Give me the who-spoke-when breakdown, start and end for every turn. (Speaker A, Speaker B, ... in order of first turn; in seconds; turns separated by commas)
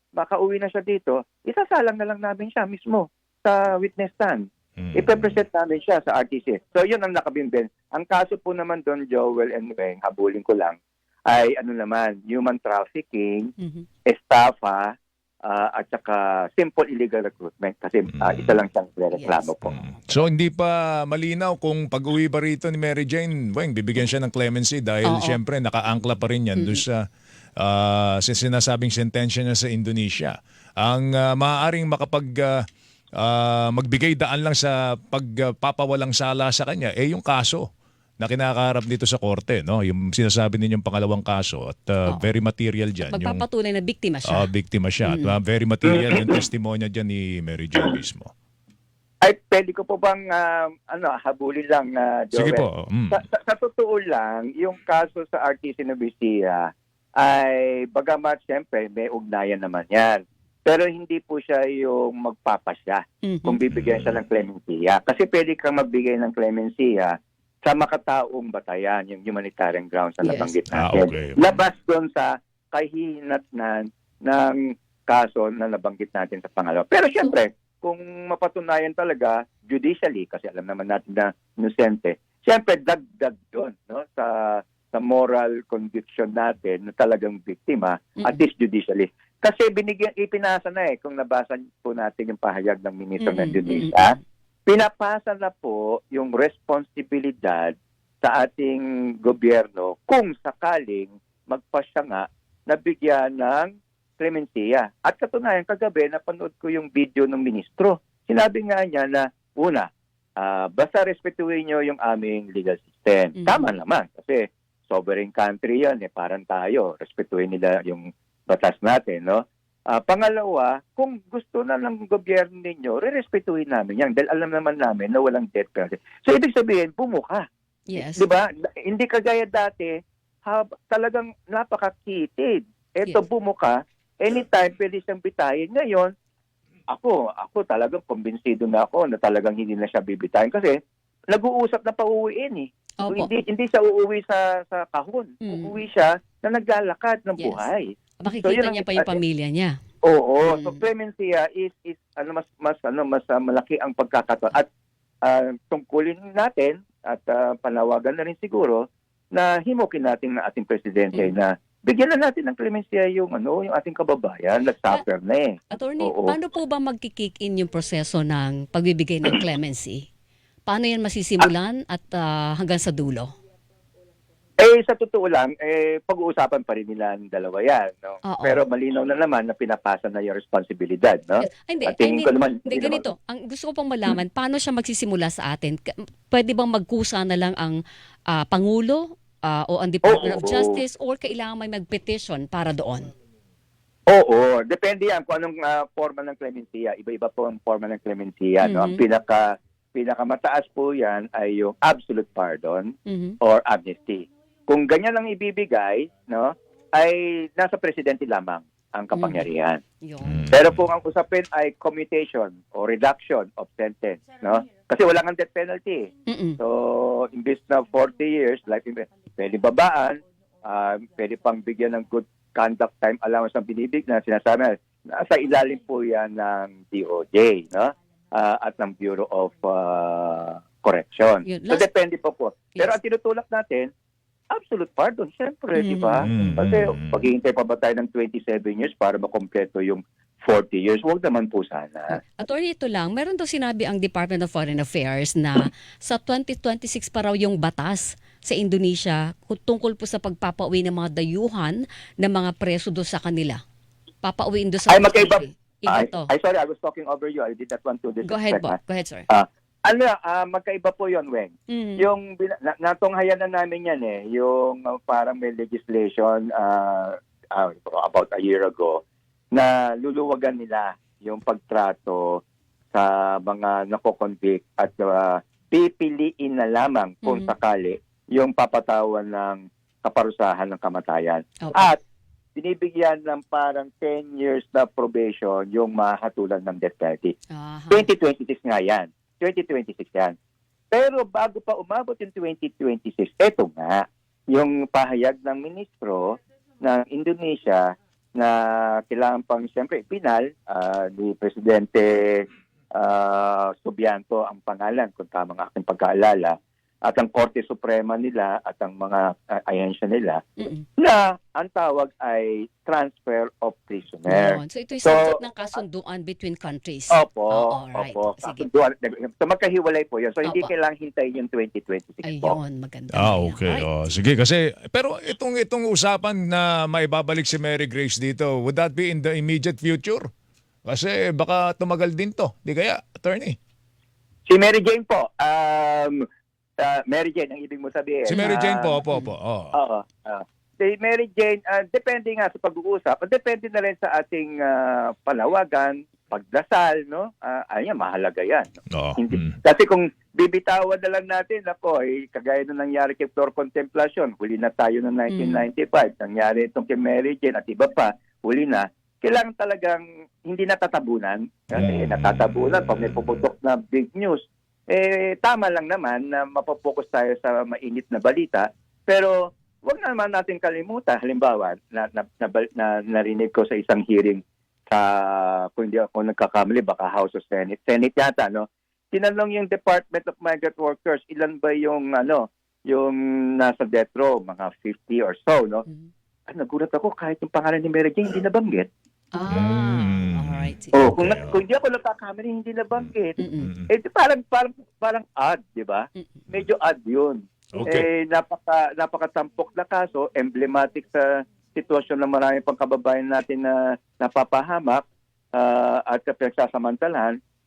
Speaker A: 0.2-13.5, Speaker B: 4.8-5.4, Speaker C: 13.6-13.9, Speaker A: 14.1-19.8, Speaker B: 18.1-18.6, Speaker C: 19.1-19.5, Speaker B: 19.6-27.0, Speaker C: 25.1-25.4, Speaker C: 26.6-26.8, Speaker B: 27.6-32.6, Speaker B: 33.2-37.7, Speaker B: 38.2-43.4, Speaker C: 43.1-44.5, Speaker B: 44.3-48.3, Speaker C: 45.0-45.3, Speaker A: 45.9-46.4, Speaker A: 49.2-94.1, Speaker B: 52.3-53.2, Speaker C: 63.2-63.6, Speaker B: 63.7-64.2, Speaker C: 70.2-70.6, Speaker B: 70.7-71.6, Speaker C: 93.2-94.2, Speaker A: 94.7-136.1, Speaker C: 113.4-113.7, Speaker C: 127.9-128.3, Speaker A: 136.9-140.8, Speaker A: 141.3-149.2, Speaker C: 143.0-143.3, Speaker C: 145.4-145.8, Speaker C: 147.4-147.7, Speaker C: 148.2-149.8, Speaker A: 150.0-154.7, Speaker C: 150.4-150.8, Speaker A: 155.2-166.4, Speaker C: 165.7-170.1, Speaker C: 170.7-173.3, Speaker A: 174.6-183.0, Speaker C: 178.2-178.6, Speaker C: 181.4-185.8, Speaker C: 186.3-193.1, Speaker A: 190.0-190.8, Speaker A: 194.1-209.8, Speaker C: 198.6-199.0, Speaker C: 203.1-203.4, Speaker C: 209.2-209.5, Speaker C: 210.0-210.4, Speaker B: 210.2-210.8, Speaker A: 210.5-233.9, Speaker C: 216.3-216.6, Speaker C: 231.4-231.9, Speaker A: 234.5-242.2, Speaker C: 235.8-236.3, Speaker B: 236.2-237.2, Speaker C: 242.4-253.6, Speaker C: 254.2-256.3, Speaker A: 254.9-258.8, Speaker C: 258.2-259.3, Speaker A: 259.3-282.0, Speaker C: 261.7-262.1, Speaker C: 277.2-277.5, Speaker C: 281.6-281.9, Speaker A: 282.6-287.4, Speaker C: 287.5-288.1, Speaker A: 287.9-290.3, Speaker A: 290.9-310.4, Speaker C: 310.6-310.8, Speaker A: 311.0-315.4, Speaker C: 314.3-318.7, Speaker A: 317.1-322.6, Speaker C: 320.4-320.7, Speaker C: 322.2-324.0, Speaker B: 323.1-330.3, Speaker B: 330.9-333.6, Speaker A: 334.5-336.2, Speaker A: 336.8-339.0, Speaker B: 338.3-339.7, Speaker C: 338.3-339.3, Speaker A: 339.7-385.9, Speaker B: 348.9-349.6, Speaker C: 355.3-355.6, Speaker B: 361.7-363.4, Speaker A: 386.5-388.9, Speaker C: 389.3-391.1, Speaker B: 389.5-391.6, Speaker A: 390.9-405.0, Speaker B: 392.9-393.9, Speaker C: 393.4-393.7, Speaker B: 397.7-398.1, Speaker A: 405.5-407.4